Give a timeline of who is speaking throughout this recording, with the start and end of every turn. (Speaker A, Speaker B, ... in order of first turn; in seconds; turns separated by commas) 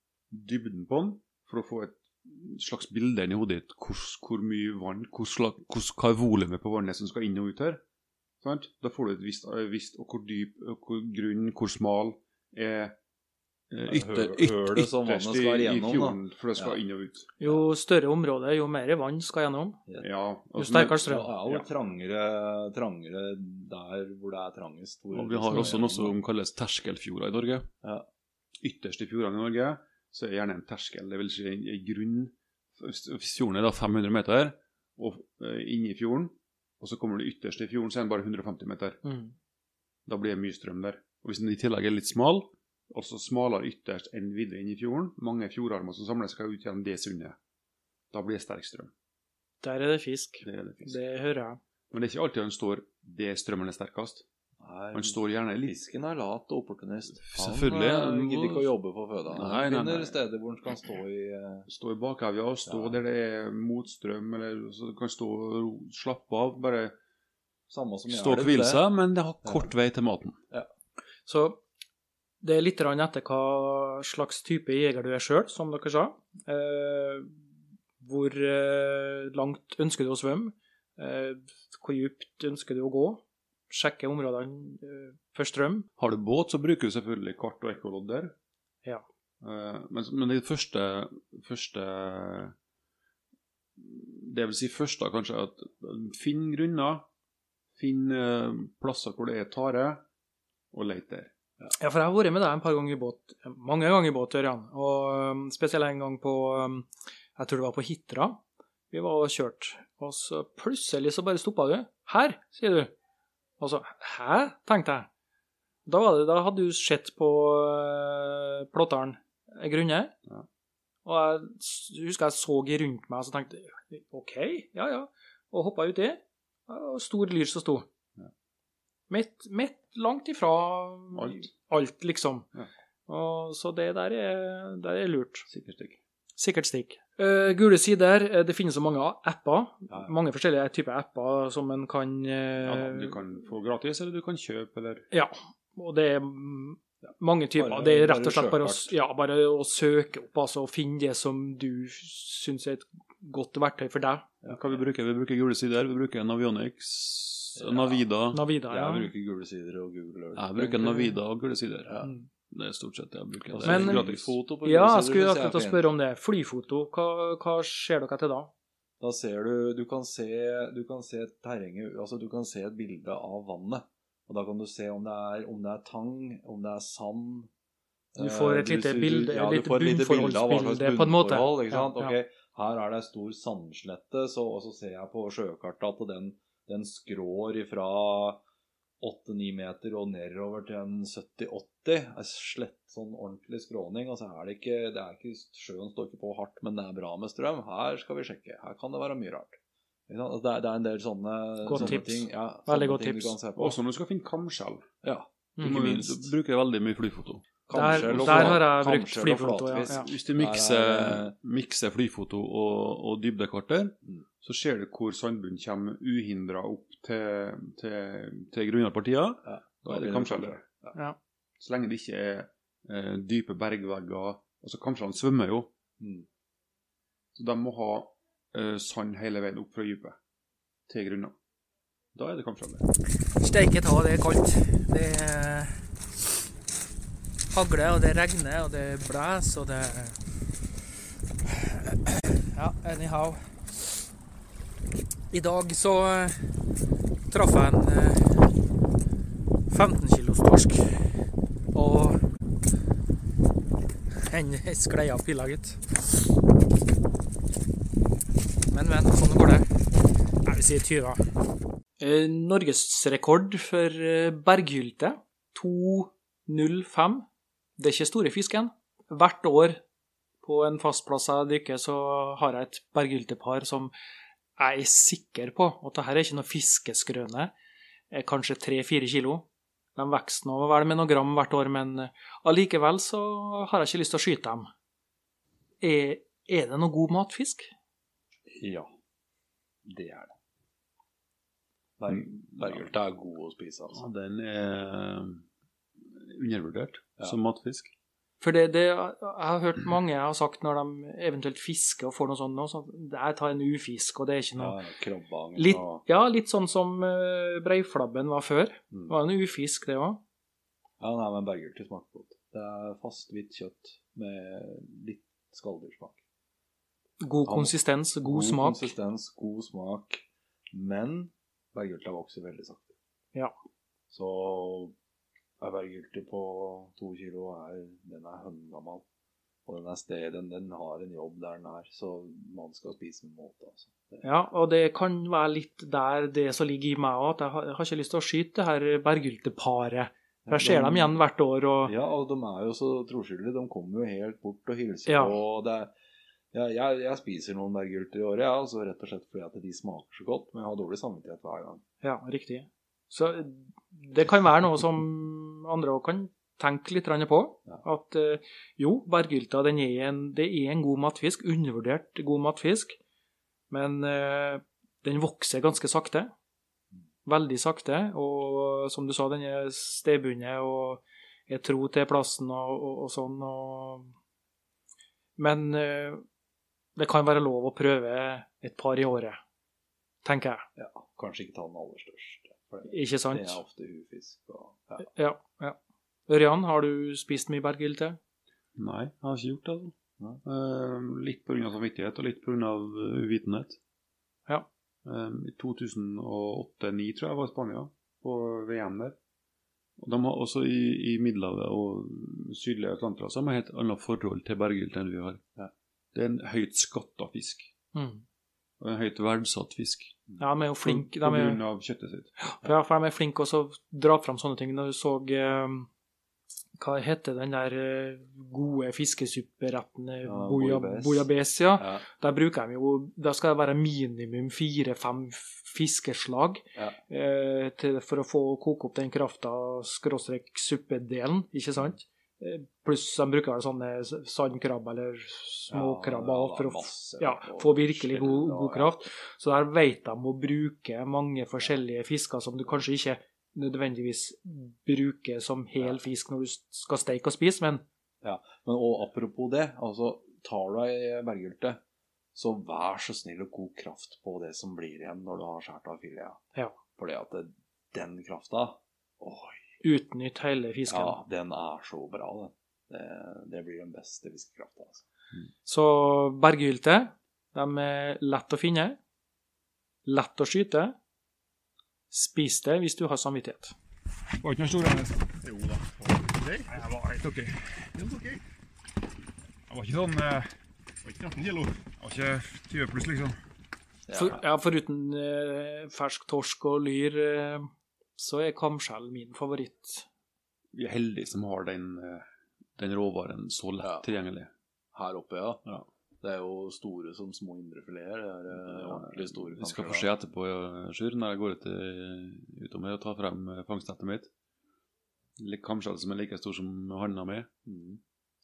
Speaker A: 0.3-7.8, Speaker A: 8.4-12.9, Speaker A: 13.7-17.3, Speaker B: 13.9-16.8, Speaker C: 17.4-19.8, Speaker B: 17.4-17.6, Speaker A: 20.0-21.7, Speaker C: 20.5-21.3, Speaker B: 21.0-26.2, Speaker A: 25.1-27.7, Speaker A: 28.6-39.0, Speaker C: 39.0-39.3, Speaker A: 40.0-47.4, Speaker A: 48.1-48.9, Speaker C: 49.6-51.6, Speaker A: 50.4-51.0, Speaker A: 51.9-54.2, Speaker B: 54.6-61.7, Speaker A: 54.9-55.8, Speaker A: 57.2-58.7, Speaker A: 59.3-60.2, Speaker A: 61.7-66.9, Speaker B: 62.7-63.0, Speaker B: 67.7-68.8, Speaker A: 68.1-70.4, Speaker B: 69.4-69.7, Speaker C: 71.2-71.6, Speaker C: 72.4-77.3, Speaker C: 78.0-85.9, Speaker A: 86.0-88.3, Speaker A: 89.4-92.5, Speaker A: 93.8-97.1, Speaker A: 97.7-100.0, Speaker A: 100.7-101.3, Speaker C: 101.8-112.9, Speaker C: 113.6-115.1, Speaker C: 115.8-120.1, Speaker C: 121.0-127.8, Speaker C: 129.1-132.5, Speaker A: 131.1-131.5, Speaker C: 133.1-135.4, Speaker A: 135.5-136.0, Speaker C: 136.4-143.2, Speaker A: 142.6-145.1, Speaker C: 145.1-154.2, Speaker B: 147.6-148.9, Speaker B: 154.4-154.8, Speaker A: 154.5-158.4, Speaker B: 157.6-158.1, Speaker C: 158.3-159.1, Speaker B: 158.7-161.1, Speaker A: 160.3-162.0, Speaker B: 161.9-162.1, Speaker A: 162.5-164.3, Speaker B: 163.5-165.9, Speaker C: 163.6-164.0, Speaker C: 164.6-168.5, Speaker B: 169.0-177.5, Speaker B: 178.1-188.4, Speaker C: 178.2-182.2, Speaker B: 189.0-199.6, Speaker B: 200.1-203.8, Speaker C: 201.6-203.3, Speaker A: 203.6-204.8, Speaker B: 205.0-206.3, Speaker A: 205.6-207.4, Speaker B: 207.7-211.3, Speaker C: 207.7-210.1, Speaker A: 208.0-208.6, Speaker A: 209.8-220.6, Speaker B: 219.4-221.0, Speaker A: 221.6-225.7, Speaker B: 226.0-226.2, Speaker A: 227.3-230.2, Speaker A: 230.9-231.3, Speaker A: 232.1-232.8, Speaker C: 233.4-235.8, Speaker C: 237.5-240.2, Speaker C: 241.9-243.5, Speaker C: 245.3-246.5, Speaker C: 247.3-248.5, Speaker C: 249.7-251.1, Speaker C: 251.7-252.2, Speaker C: 254.2-255.8, Speaker C: 258.7-259.7, Speaker C: 260.4-261.2, Speaker C: 262.0-267.3, Speaker C: 267.8-269.8, Speaker C: 270.4-273.9, Speaker C: 274.6-277.5, Speaker C: 278.1-284.7, Speaker C: 285.8-287.7, Speaker B: 288.5-288.9, Speaker B: 289.9-290.3, Speaker B: 292.0-294.0, Speaker A: 292.6-292.9, Speaker A: 293.9-295.4, Speaker A: 296.1-297.9, Speaker C: 298.4-304.8, Speaker B: 304.6-306.0, Speaker C: 305.6-310.2, Speaker B: 311.0-316.2, Speaker C: 317.2-318.9, Speaker B: 317.4-322.9, Speaker B: 324.1-324.9, Speaker B: 325.6-329.0, Speaker B: 329.6-334.2, Speaker C: 334.2-341.9, Speaker B: 340.4-341.2, Speaker B: 341.9-345.9, Speaker C: 345.1-345.4, Speaker B: 346.5-351.8, Speaker C: 352.0-363.0, Speaker C: 363.7-366.3, Speaker C: 367.2-374.1, Speaker C: 375.4-376.2, Speaker C: 376.9-379.4, Speaker C: 380.2-380.6, Speaker B: 380.8-385.1, Speaker C: 382.8-383.6, Speaker C: 385.0-388.2, Speaker A: 388.8-393.8, Speaker A: 395.0-399.1, Speaker A: 400.0-405.4, Speaker A: 406.1-407.7, Speaker C: 407.9-408.2, Speaker A: 408.8-410.2, Speaker C: 410.4-411.6, Speaker A: 410.8-412.3, Speaker C: 412.4-415.9, Speaker C: 416.8-447.8, Speaker B: 420.2-422.0, Speaker B: 435.7-438.9, Speaker B: 448.2-451.8, Speaker B: 452.3-456.4, Speaker B: 457.0-459.6, Speaker C: 459.8-461.2, Speaker B: 460.9-465.0, Speaker C: 465.6-469.0, Speaker C: 470.0-470.9, Speaker C: 472.1-473.7, Speaker D: 474.4-478.4, Speaker D: 479.7-480.5, Speaker D: 481.0-483.3, Speaker B: 484.1-484.4, Speaker C: 484.1-490.1, Speaker A: 490.7-492.2, Speaker A: 492.8-494.5, Speaker B: 493.8-494.1, Speaker B: 494.9-495.6, Speaker B: 496.2-500.1, Speaker A: 498.7-504.3, Speaker A: 505.4-507.5, Speaker B: 507.6-508.0